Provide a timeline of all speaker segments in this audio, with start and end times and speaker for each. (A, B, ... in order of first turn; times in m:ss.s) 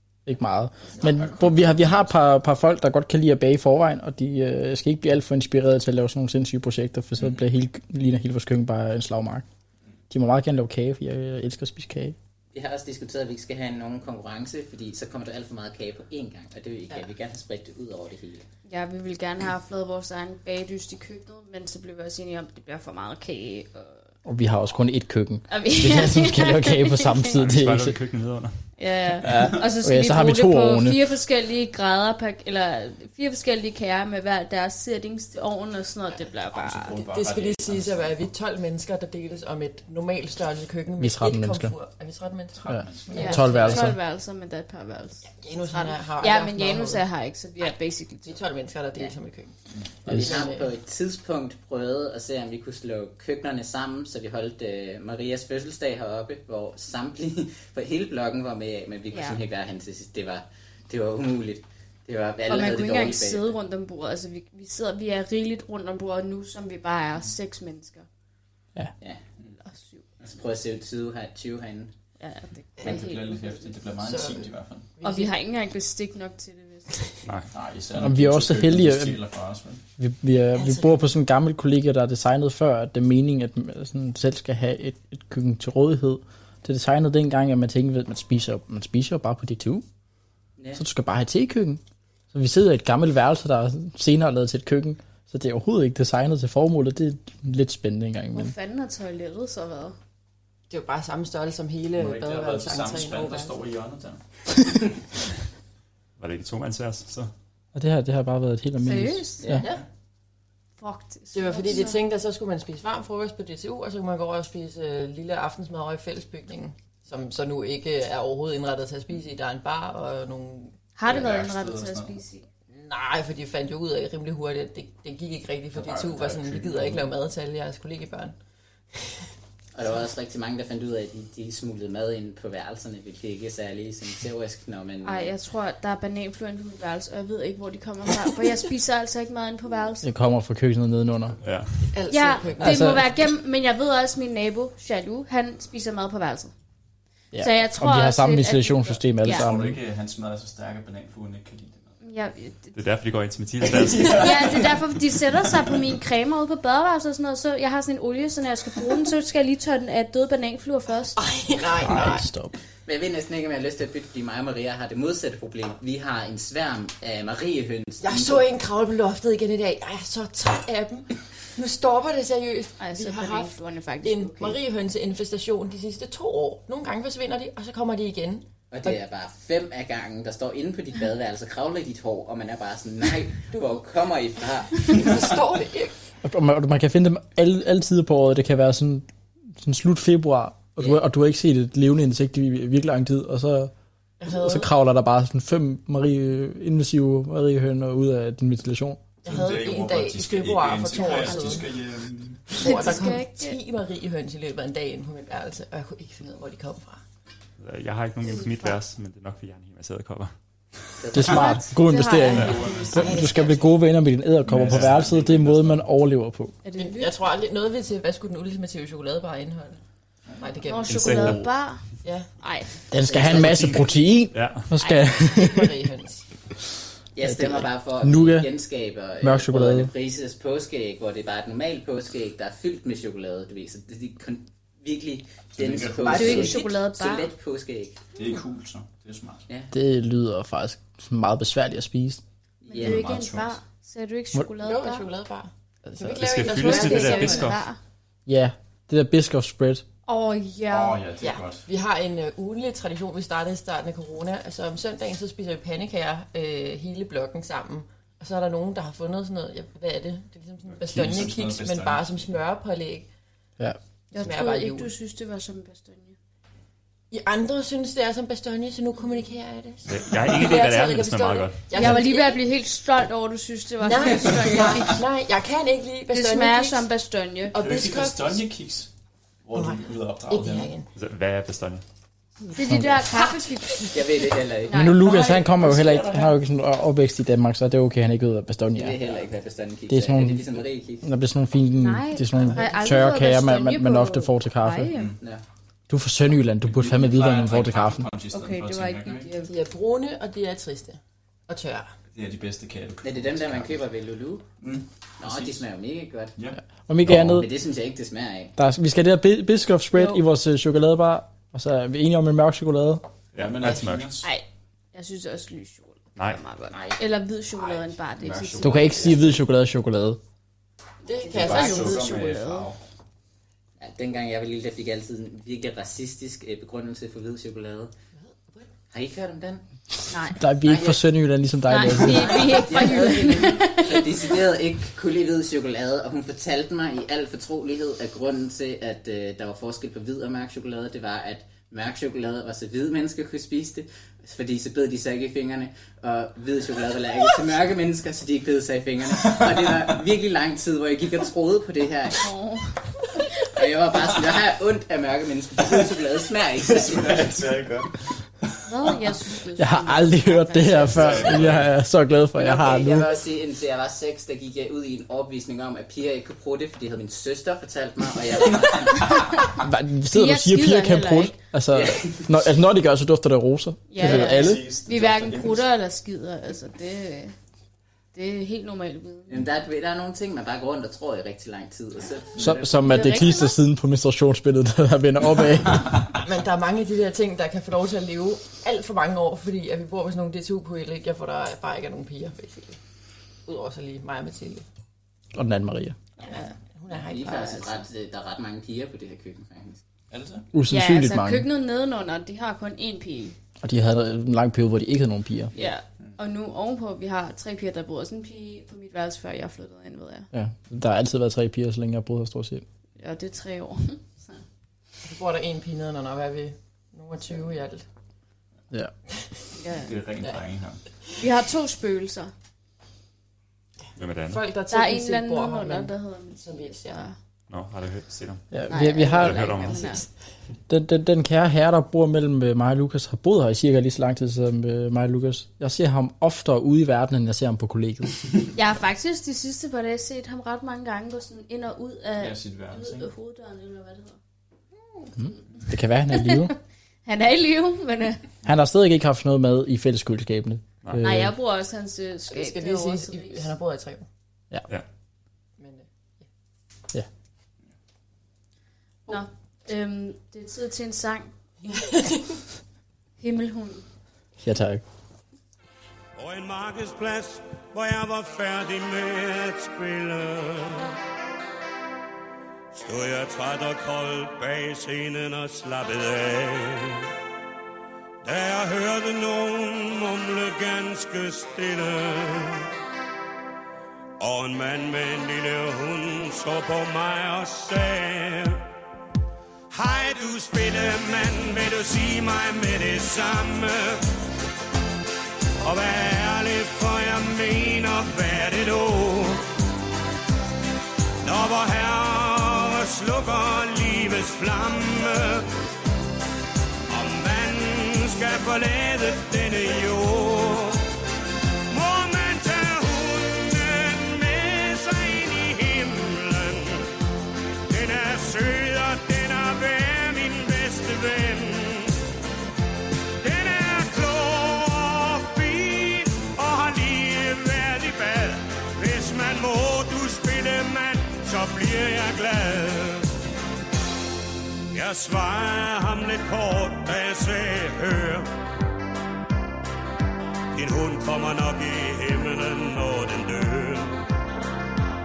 0:00.2-0:09.4 A
0:01.0-0:02.0 B
0:10.1-0:12.2 A
0:12.5-0:18.4 C
0:18.7-0:24.0 D
0:24.2-0:28.0 A
0:25.5-0:27.4 D
0:27.4-0:28.6 E
0:28.8-0:37.0 D
0:29.2-0:31.0 A
0:36.5-0:38.2 B
0:36.9-0:43.8 F
0:41.0-0:41.7 A
0:42.6-0:43.6 B
0:42.7-0:44.0 A
0:43.1-0:48.4 D
0:45.2-0:47.0 F
0:48.2-0:49.5 F
0:50.1-0:50.4 A
0:50.1-0:50.7 F
0:50.1-1:03.5 C
0:59.1-0:59.4 D
1:02.5-1:08.1 D
1:09.6-1:10.0 D
1:10.2-1:11.9 C
1:12.2-1:13.7 D
1:12.8-1:13.0 F
1:12.8-1:14.9 B
1:13.9-1:15.3 F
1:15.0-1:17.0 D
1:17.2-1:17.5 E
1:17.5-1:19.8 B
1:18.0-1:19.2 A
1:20.0-1:29.8 A
1:20.5-1:21.1 F
1:30.7-1:31.8 A
1:32.3-1:38.5 A
1:38.3-1:40.0 D
1:40.7-1:43.6 F
1:42.0-1:44.2 B
1:46.2-1:47.3 E
1:47.7-1:49.6 A
1:48.8-1:49.4 D
1:49.5-1:49.8 F
1:50.8-1:52.0 D
1:51.3-2:00.8 F
2:01.0-2:02.4 D
2:01.0-2:02.2 B
2:02.7-2:08.3 F
2:05.7-2:07.1 B
2:09.7-2:15.3 C
2:15.0-2:20.1 D
2:20.0-2:21.4 A
2:21.4-2:21.7 E
2:21.9-2:23.1 F
2:22.1-2:26.5 D
2:22.6-2:23.0 A
2:27.3-2:29.8 A
2:27.4-2:29.4 D
2:29.3-2:31.9 B
2:32.0-2:32.7 D
2:32.7-2:34.4 E
2:33.7-2:34.7 B
2:34.1-2:41.2 D
2:41.2-2:42.3 F
2:41.8-2:42.6 A
2:42.8-2:48.5 C
2:48.0-2:59.0 F
2:52.8-2:54.6 D
2:58.7-3:05.3 C
3:04.8-3:05.9 F
3:06.2-3:09.1 A
3:09.6-3:13.7 A
3:14.2-3:14.7 F
3:14.3-3:19.0 A
3:19.2-3:21.7 F
3:19.2-3:22.6 B
3:20.9-3:21.6 D
3:22.5-3:27.0 F
3:22.6-3:23.6 D
3:27.6-3:30.3 E
3:28.2-3:28.7 D
3:31.0-3:31.6 C
3:31.1-3:36.6 A
3:31.2-3:33.5 D
3:32.3-3:32.8 E
3:32.4-3:33.5 F
3:32.7-3:33.1 B
3:34.5-3:35.8 B
3:34.6-3:35.0 E
3:36.6-3:37.1 D
3:36.8-3:39.8 F
3:40.4-3:41.4 F
3:40.7-3:41.8 D
3:40.8-3:41.4 E
3:42.0-3:42.3 F
3:42.4-3:42.8 D
3:42.9-3:45.7 A
3:43.1-3:43.8 C
3:43.1-3:44.7 E
3:44.8-3:45.4 D
3:45.3-3:46.2 F
3:47.1-3:58.0 C
3:47.2-3:48.5 A
3:49.2-3:49.9 A
3:55.5-3:56.5 B
3:56.0-3:56.7 F
3:56.1-3:57.3 D
3:58.1-3:59.4 B
3:59.7-4:02.2 A
4:02.6-4:03.1 C
4:02.7-4:05.0 D
4:02.8-4:03.6 B
4:04.6-4:07.5 F
4:06.0-4:07.6 E
4:06.5-4:07.8 D
4:08.2-4:09.8 A
4:10.0-4:11.0 D
4:10.7-4:11.6 B
4:11.2-4:23.1 F
4:20.8-4:22.3 B
4:24.1-4:24.9 F
4:24.1-4:26.2 D
4:27.1-4:32.4 F
4:29.9-4:31.7 E
4:31.7-4:35.0 D
4:33.8-4:36.8 F
4:36.1-4:37.5 D
4:37.5-4:38.4 F
4:37.6-4:38.9 B
4:39.4-4:40.7 B
4:39.5-4:40.9 F
4:40.9-4:41.8 E
4:42.5-4:44.1 D
4:42.7-4:43.0 A
4:43.9-4:45.0 C
4:44.7-4:45.1 D
4:44.7-4:49.1 A
4:45.0-4:46.3 B
4:48.7-4:51.1 C
4:49.9-4:54.9 A
4:51.8-4:55.1 D
4:52.3-4:53.1 F
4:54.9-4:55.2 B
4:55.9-4:58.1 A
4:56.6-4:59.3 B
4:58.3-4:59.5 D
4:59.4-5:01.9 F
5:02.1-5:03.8 B
5:03.0-5:04.5 C
5:04.6-5:05.6 B
5:05.2-5:06.3 C
5:06.4-5:07.4 B
5:06.9-5:07.5 A
5:07.1-5:08.5 C
5:08.6-5:13.0 A
5:13.3-5:14.2 E
5:13.4-5:14.3 B
5:14.2-5:19.2 D
5:16.2-5:16.4 E
5:16.7-5:17.9 C
5:18.2-5:19.4 B
5:18.6-5:20.2 A
5:21.0-5:22.1 F
5:21.2-5:22.7 D
5:21.3-5:22.8 B
5:23.8-5:27.9 C
5:28.2-5:28.7 F
5:28.9-5:29.6 C
5:30.1-5:30.4 D
5:30.4-5:32.6 A
5:30.6-5:31.0 C
5:31.7-5:34.2 D
5:31.9-5:52.2 C
5:49.2-5:49.8 B
5:52.2-5:52.8 D
5:53.4-5:57.4 C
5:56.7-5:58.1 B
5:58.6-6:01.4 D
5:59.6-6:03.1 A
6:00.9-6:01.7 B
6:02.4-6:09.4 C
6:09.6-6:14.6 A
6:10.1-6:11.4 D
6:11.7-6:12.3 C
6:13.9-6:17.3 D
6:14.0-6:15.6 B
6:18.1-6:19.4 D
6:19.3-6:22.9 C
6:22.4-6:26.0 A
6:22.8-6:23.5 D
6:26.2-6:32.8 F
6:33.4-6:34.6 F
6:35.3-6:36.0 A
6:36.2-6:37.8 F
6:36.9-6:39.8 C
6:40.1-6:40.4 B
6:40.5-6:41.5 A
6:40.7-6:43.4 D
6:43.6-6:45.5 A
6:45.5-6:50.3 D
6:50.3-6:52.6 A
6:53.0-6:54.4 D
6:55.0-6:57.8 F
6:59.6-6:59.9 D
6:59.8-7:00.8 B
7:01.2-7:02.3 D
7:04.0-7:04.4 E
7:04.2-7:07.0 F
7:04.7-7:07.2 D
7:07.5-7:08.5 E
7:08.5-7:09.5 A
7:08.7-7:10.0 D
7:08.9-7:10.1 F
7:09.2-7:09.9 E
7:10.7-7:18.2 A
7:18.6-7:24.2 D
7:22.2-7:23.1 B
7:25.2-7:26.5 A
7:26.1-7:26.5 D
7:27.0-7:28.2 D
7:28.4-7:31.3 A
7:31.0-7:33.5 D
7:32.3-7:34.0 F
7:35.6-7:36.2 F
7:39.1-7:41.8 D
7:41.8-7:42.2 F
7:43.2-7:43.8 D
7:44.4-7:44.8 A
7:46.2-7:51.0 G
7:52.7-7:57.1 G
7:58.2-8:02.7 G
8:04.2-8:08.6 G
8:09.7-8:14.1 G
8:15.6-8:19.4 G
8:21.2-8:25.5 G
8:26.9-8:30.8 G
8:31.7-8:36.9 G
8:37.7-8:42.0 G
8:43.2-8:53.1 G
8:54.7-8:58.3 G
9:00.5-9:04.0 G